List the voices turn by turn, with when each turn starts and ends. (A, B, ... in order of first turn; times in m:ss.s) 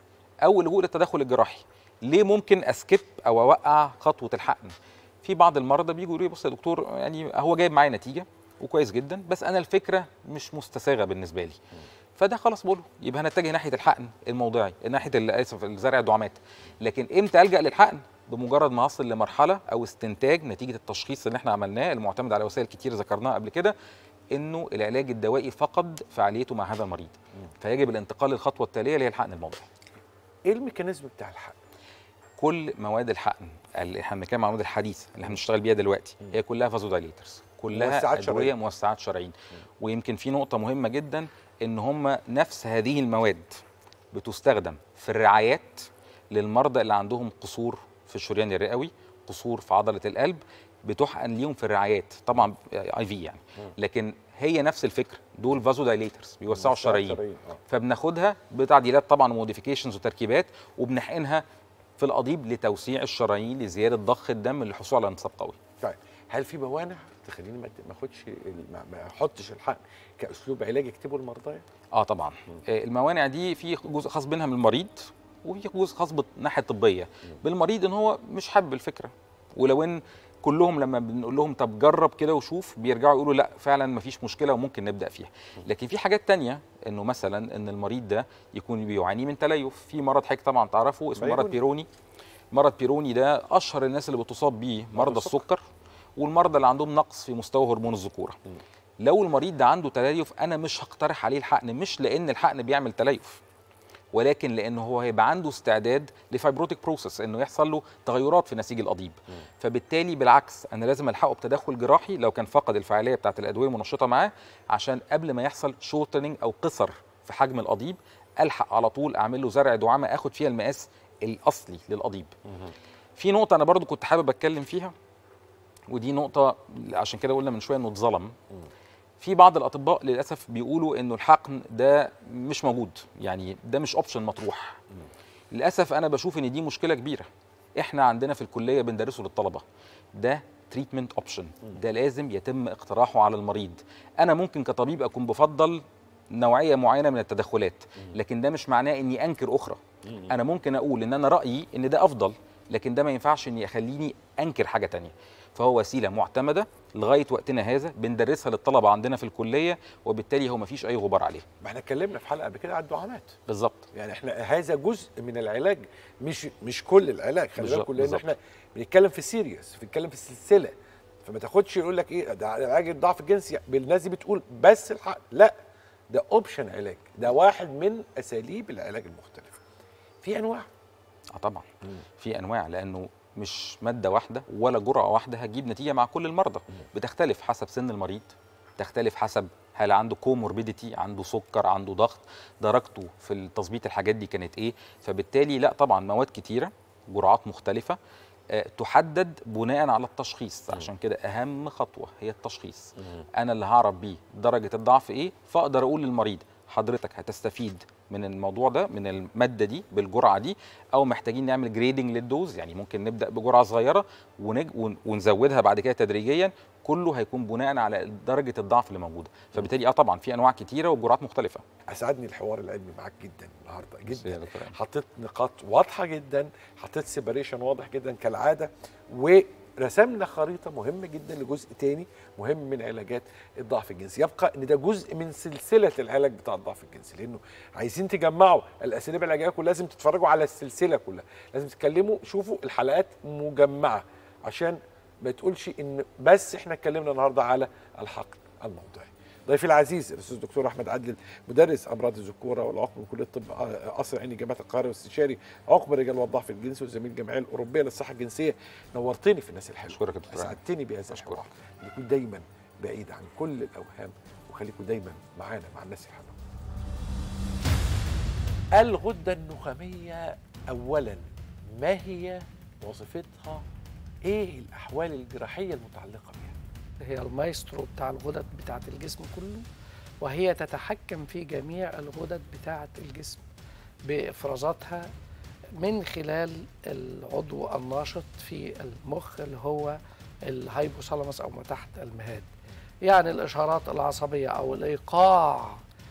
0:00.4-0:11.6 A
0:12.2-0:23.7 A
0:24.3-0:29.7 A
0:30.4-0:31.6 B
0:32.4-0:43.4 A
0:37.7-0:38.5 B
0:44.1-1:01.4 A
0:56.5-0:57.6 B
1:02.0-1:05.6 A
1:05.8-1:11.6 B
1:11.9-1:31.9 A
1:31.2-1:31.6 B
1:32.5-1:35.6 A
1:34.9-1:35.4 B
1:36.2-1:38.4 A
1:39.0-1:43.4 A
1:44.1-2:02.3 A
2:03.2-2:04.9 A
2:05.9-2:08.3 A
2:09.2-2:14.8 A
2:15.5-2:17.2 A
2:17.8-2:19.6 A
2:20.1-2:41.4 A
2:41.6-2:43.3 B
2:43.5-2:43.9 A
2:43.9-2:50.7 B
2:47.6-2:48.3 A
2:51.2-2:55.5 B
2:56.1-2:59.6 B
3:00.2-3:00.7 B
3:01.3-3:01.7 A
3:02.2-3:18.0 A
3:18.5-3:41.6 A
3:41.9-4:26.3 B
3:44.1-3:44.8 A
4:19.9-4:20.6 A
4:21.1-4:21.5 A
4:28.7-4:31.2 B
4:31.8-4:33.6 B
4:34.2-4:36.5 B
4:37.1-4:39.6 C
4:40.3-4:43.4 C
4:44.1-4:45.0 C
4:45.8-4:49.9 C
4:50.5-4:52.4 C
4:53.1-4:55.6 C